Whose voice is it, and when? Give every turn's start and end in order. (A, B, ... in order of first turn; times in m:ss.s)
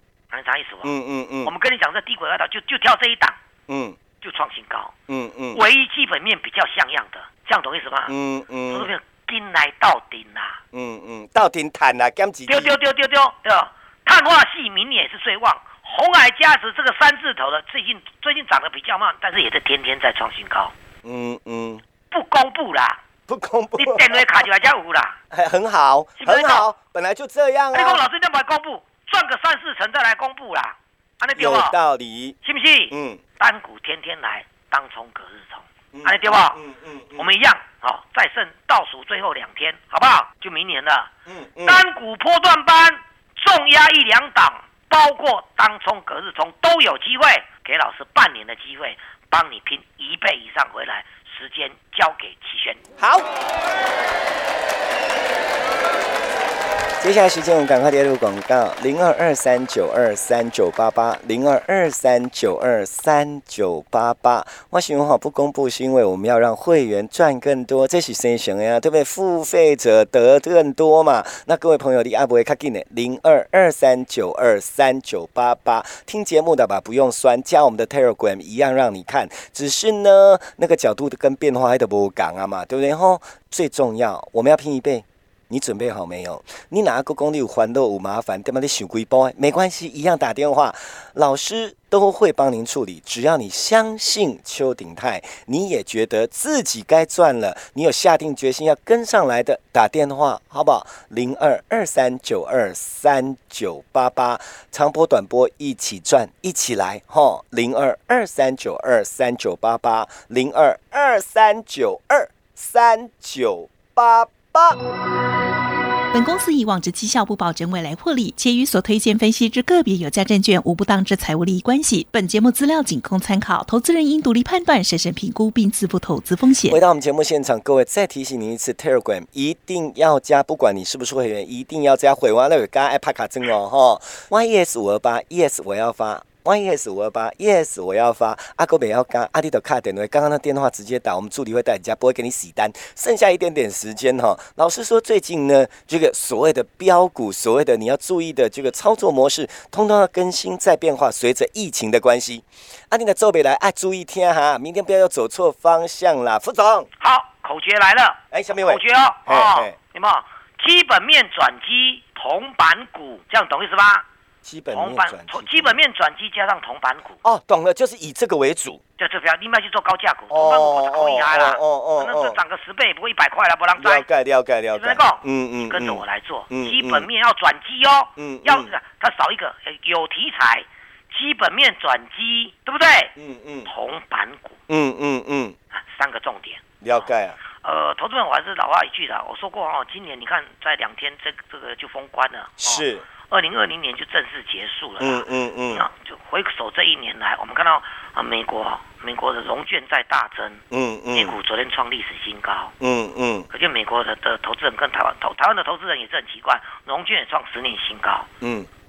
0:00.3-0:03.4 A
0:00.8-0:01.5 B
0:03.7-0:04.0 B
0:04.2-0:05.0 A
0:05.1-0:05.6 B
0:05.5-0:08.2 A
0:08.1-0:08.9 B
0:08.7-0:10.6 A
0:10.7-0:12.8 B
0:12.5-0:20.7 A
0:21.0-0:21.8 B
0:22.1-0:23.0 A
0:23.3-0:24.3 B
0:23.8-0:25.2 A
0:25.3-0:28.0 B
0:26.2-0:26.7 A
0:27.7-0:31.8 A
0:31.4-0:32.4 B
0:32.4-0:36.6 A
0:32.9-0:33.2 B
0:35.9-0:37.3 B
0:37.1-0:41.1 A
0:41.3-0:41.8 B
0:41.6-0:52.8 A
0:53.0-0:53.3 B
0:57.0-1:54.8 B
1:56.1-2:06.8 C
2:06.7-2:36.9 B
2:37.0-2:44.0 A
2:38.3-2:39.8 B
2:44.4-2:45.8 B
2:44.7-2:47.2 A
2:47.2-2:48.8 B
2:49.0-2:54.1 A
2:50.3-2:52.4 B
2:53.8-2:57.1 B
2:54.8-3:03.1 A
2:58.2-2:58.7 B
3:03.2-3:03.7 B
3:03.7-3:04.6 A
3:04.7-3:05.6 B
3:05.7-3:22.7 A
3:06.8-3:07.4 B
3:12.6-3:13.1 B
3:15.0-3:15.8 B
3:20.7-3:21.4 B
3:22.8-3:23.5 B
3:23.5-3:28.3 A
3:28.4-3:28.7 B